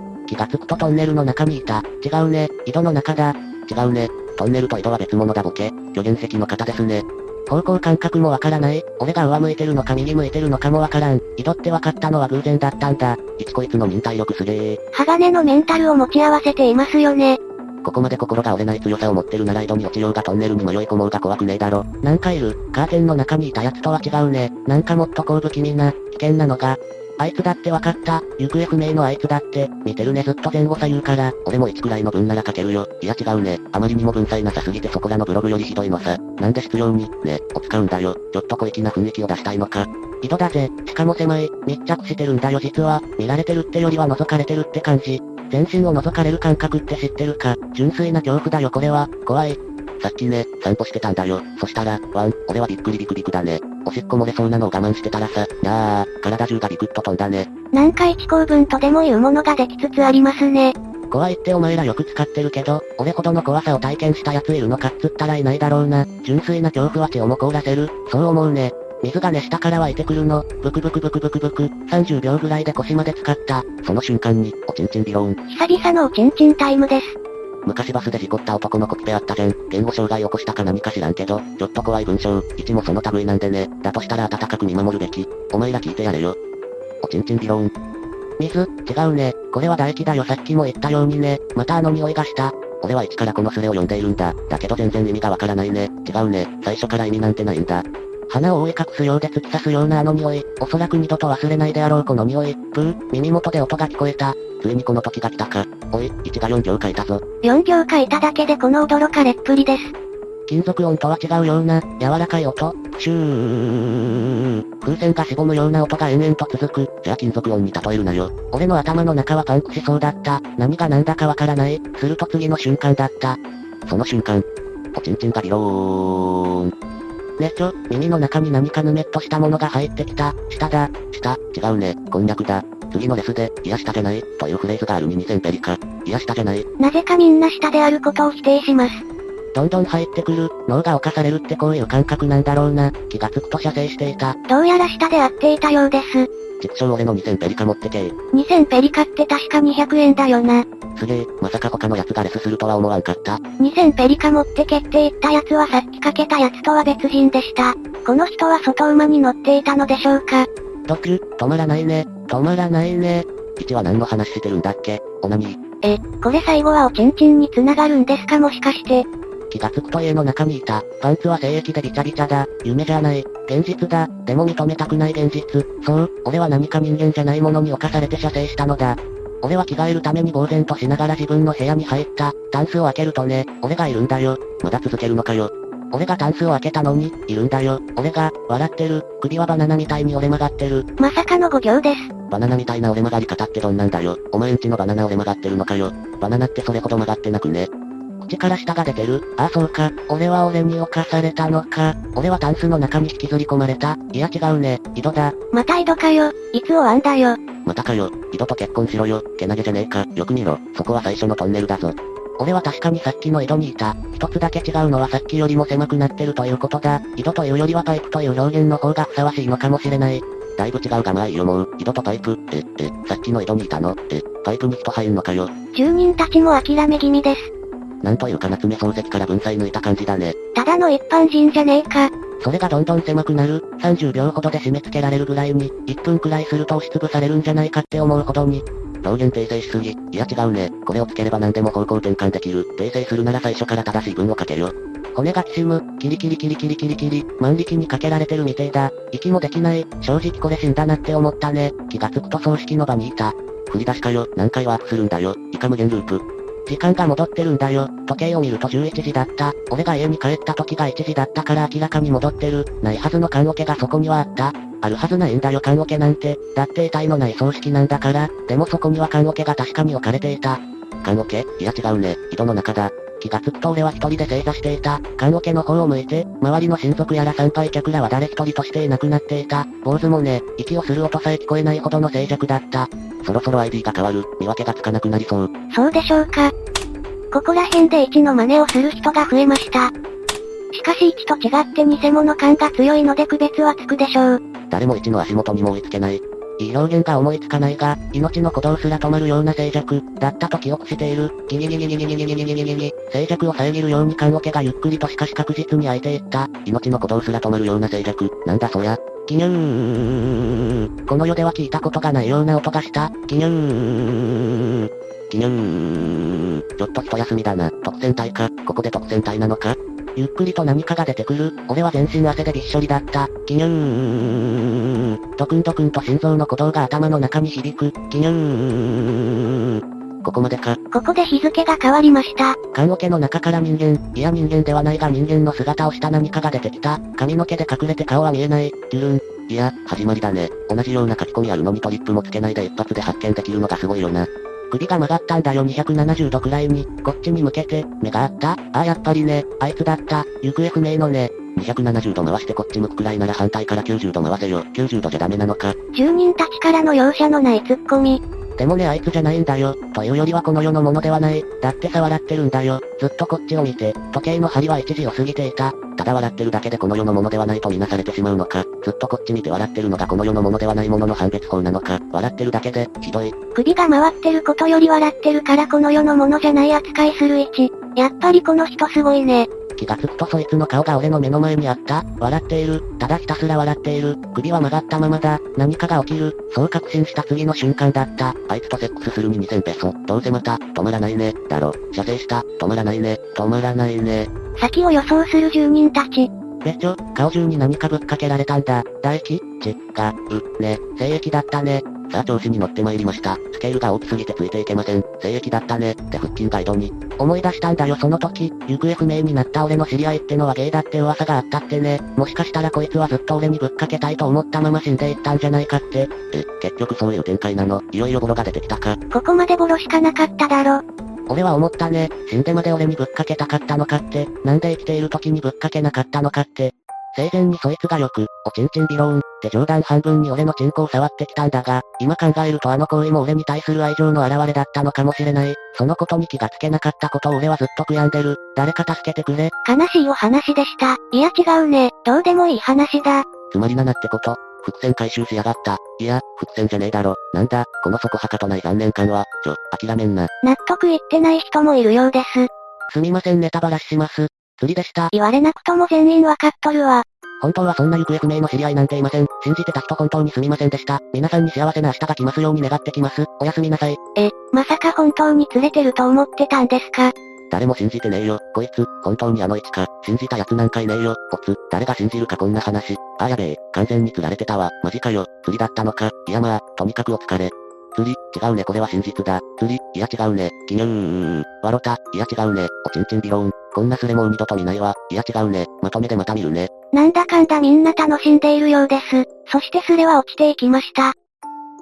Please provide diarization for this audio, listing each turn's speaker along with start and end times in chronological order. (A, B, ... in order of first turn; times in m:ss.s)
0:00.3-0:14.8 A
0:14.9-0:17.4 B
0:17.8-0:57.5 A
0:57.7-1:00.8 B
1:01.1-1:15.4 A
1:15.5-1:17.2 B
1:17.6-1:26.4 A
1:27.0-1:27.7 A
1:28.4-1:47.2 A
1:47.4-1:49.9 B
1:50.5-2:06.7 A
2:07.4-2:16.6 A
2:16.8-2:19.0 B
2:19.5-2:24.4 A
2:24.5-2:26.3 B
2:26.6-2:28.1 A
2:28.3-2:30.6 B
2:31.0-2:33.4 A
2:33.6-2:40.5 B
2:40.9-2:45.6 A
2:45.8-2:49.1 B
2:49.5-3:10.8 A
3:11.0-3:12.1 B
3:12.3-3:17.7 A
3:18.2-3:25.3 A
3:25.5-3:27.4 B
3:27.7-3:45.5 A
3:45.7-3:47.5 B
3:48.0-3:50.4 A
3:50.6-3:52.1 B
3:52.4-4:45.5 A
4:45.7-4:46.5 B
4:47.3-4:49.9 B
4:50.7-4:54.4 B
4:54.7-5:30.8 A
5:30.9-5:32.6 B
5:32.7-5:55.8 A
5:55.9-5:58.2 B
5:58.6-6:13.3 A
6:13.6-6:19.5 B
6:19.8-6:34.3 A
6:34.6-6:36.3 B
6:36.6-6:59.0 A
6:59.1-7:00.8 B
7:01.3-7:19.5 A
7:19.6-7:23.3 B
7:23.5-7:30.3 A
7:30.4-7:32.5 B
7:32.9-7:35.1 A
7:35.1-7:37.0 B
7:37.4-7:44.0 A
7:44.2-7:47.1 B
7:47.5-8:06.7 A
8:06.9-8:11.1 B